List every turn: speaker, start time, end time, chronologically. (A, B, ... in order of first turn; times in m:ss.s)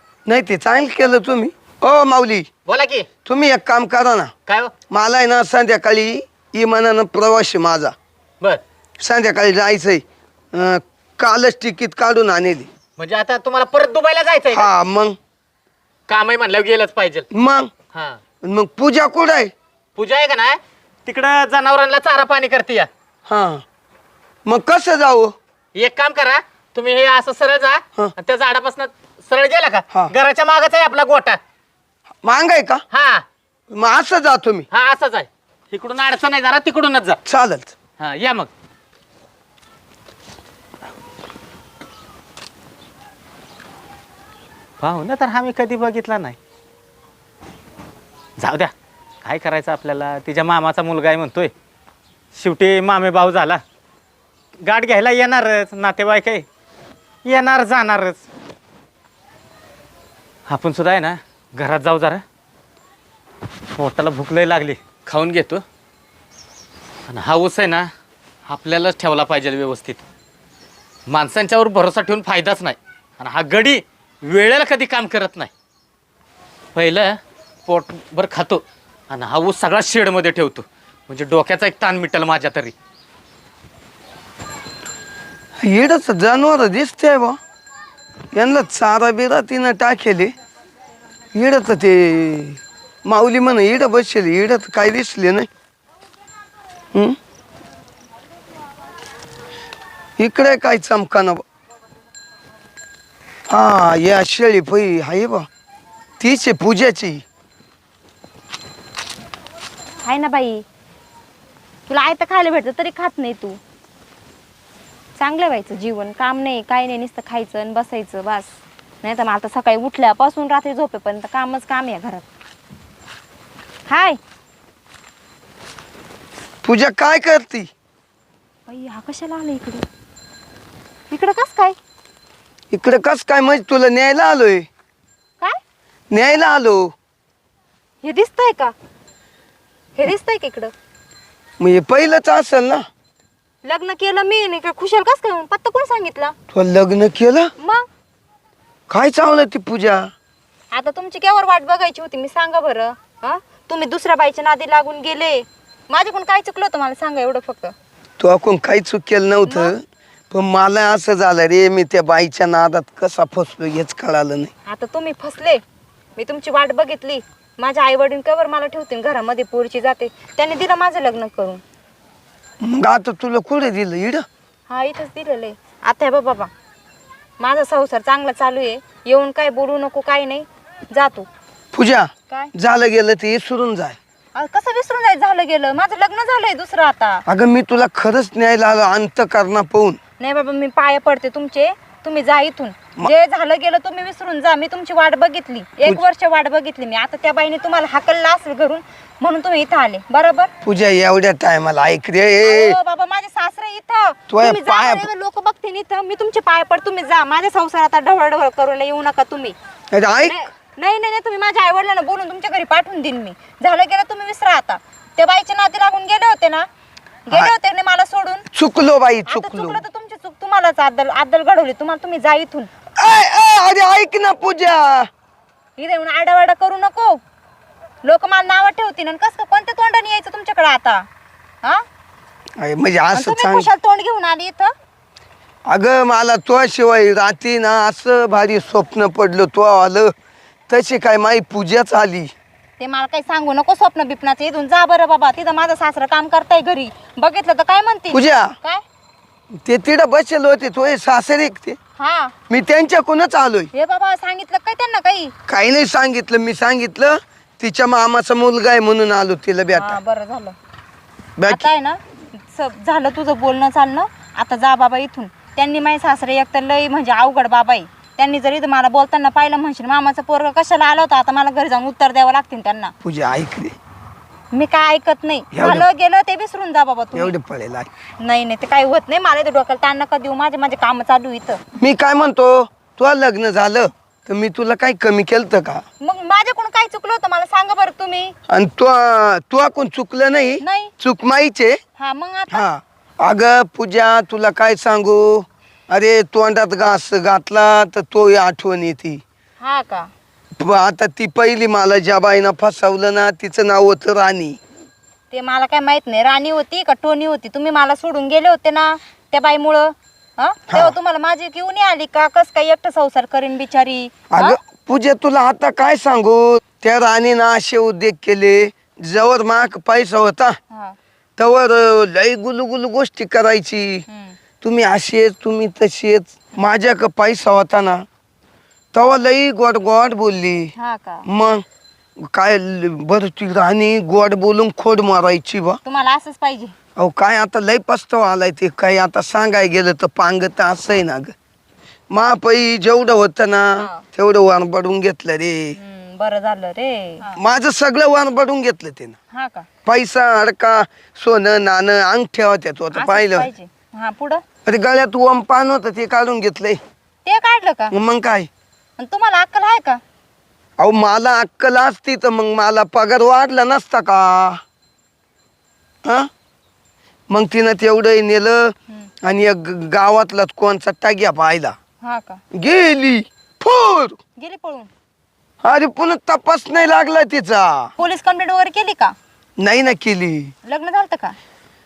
0:00.3-0:02.5 A
0:02.7-0:03.1 B
0:03.2-0:04.3 A
0:04.5-0:04.7 B
0:04.9-0:07.9 A
0:09.0-0:12.7 A
0:13.0-0:14.7 B
0:14.5-0:15.2 A
0:16.1-0:17.3 B
0:17.3-0:17.7 A
0:17.9-0:18.2 B
0:18.4-0:19.5 A
0:20.0-0:22.9 B
0:23.3-0:23.6 A
0:24.5-0:25.4 A
0:25.8-0:31.4 B
0:32.2-0:32.8 A
0:32.9-0:33.2 B
0:33.7-0:34.7 A
0:34.7-0:37.2 B
0:37.3-0:37.7 A
0:38.0-0:38.5 B
0:44.8-0:46.4 B
0:48.4-0:48.7 B
0:49.2-0:51.5 B
0:52.4-0:53.6 B
0:54.6-0:56.5 B
0:57.2-0:58.3 B
1:00.5-1:02.2 B
1:03.8-1:05.6 B
1:07.1-1:07.9 B
1:08.5-1:10.0 B
1:11.1-1:15.5 B
1:16.8-1:22.7 B
1:25.6-1:27.4 A
1:28.4-1:30.3 A
1:31.3-1:35.5 A
1:36.9-1:37.2 A
1:40.2-1:41.4 A
1:43.5-1:45.5 A
1:46.2-1:47.2 A
1:50.0-1:50.6 C
1:51.9-1:53.6 C
1:55.2-2:02.3 C
2:03.9-2:04.2 C
2:06.6-2:07.7 A
2:08.7-2:09.8 C
2:11.1-2:11.8 C
2:12.7-2:14.7 A
2:16.1-2:16.9 A
2:18.0-2:18.7 C
2:20.0-2:20.7 C
2:21.6-2:22.9 A
2:23.6-2:26.4 C
2:26.5-2:27.5 A
2:28.9-2:30.1 A
2:30.7-2:37.7 C
2:38.2-2:44.5 A
2:39.5-2:39.7 C
2:44.7-2:45.6 C
2:46.2-2:51.6 C
2:52.6-2:54.2 A
2:54.7-2:56.5 C
2:57.4-3:01.3 C
3:01.7-3:04.0 A
3:04.3-3:07.2 C
3:07.3-3:10.0 A
3:10.2-3:20.5 C
3:20.6-3:22.8 A
3:22.4-3:29.6 C
3:24.3-3:25.1 A
3:29.9-3:30.4 A
3:30.2-3:36.7 C
3:37.3-3:38.5 C
3:38.5-3:39.8 A
3:39.3-3:42.7 C
3:43.0-3:45.1 A
3:45.8-3:47.2 C
3:48.0-3:51.0 C
3:52.6-3:53.7 A
3:53.1-3:54.7 C
3:55.7-4:00.1 A
4:00.7-4:02.3 A
4:02.8-4:08.8 C
4:08.1-4:08.5 A
4:09.6-4:11.8 A
4:12.0-4:12.3 C
4:12.5-4:13.7 A
4:13.7-4:15.3 C
4:15.5-4:20.0 A
4:19.7-4:20.6 C
4:21.4-4:21.7 A
4:21.5-4:32.9 C
4:33.0-4:33.8 A
4:34.5-4:37.4 C
4:35.5-4:35.9 A
4:37.1-4:37.9 A
4:38.2-4:41.6 C
4:41.8-4:45.8 A
4:46.0-4:48.4 C
4:48.5-4:51.8 A
4:50.6-4:50.9 C
4:52.0-4:52.7 C
4:52.5-4:59.2 A
4:59.6-5:00.1 C
5:00.6-5:04.6 A
5:05.3-5:14.6 C
5:10.7-5:11.0 A
5:14.3-5:20.6 A
5:20.7-5:21.0 C
5:21.4-5:24.0 A
5:24.1-5:24.4 C
5:24.6-5:28.1 A
5:28.9-5:30.7 A
5:30.8-5:31.3 C
5:31.3-5:31.6 A
5:32.2-5:35.8 A
5:35.8-5:36.8 C
5:37.0-5:41.3 A
5:42.1-5:45.8 A
5:43.8-5:44.0 C
5:45.8-5:47.4 C
5:47.4-5:49.2 A
5:49.3-5:49.7 C
5:49.8-5:53.5 A
5:52.9-5:54.4 C
5:54.7-5:56.8 A
5:57.2-5:57.9 C
5:57.9-5:58.5 A
5:59.0-6:00.0 C
6:00.8-6:04.6 A
6:07.3-6:11.8 A
6:12.0-6:12.4 C
6:12.5-6:14.2 A
6:14.4-6:14.9 C
6:15.6-6:17.9 A
6:18.0-6:19.1 C
6:19.6-6:20.5 A
6:20.6-6:21.4 C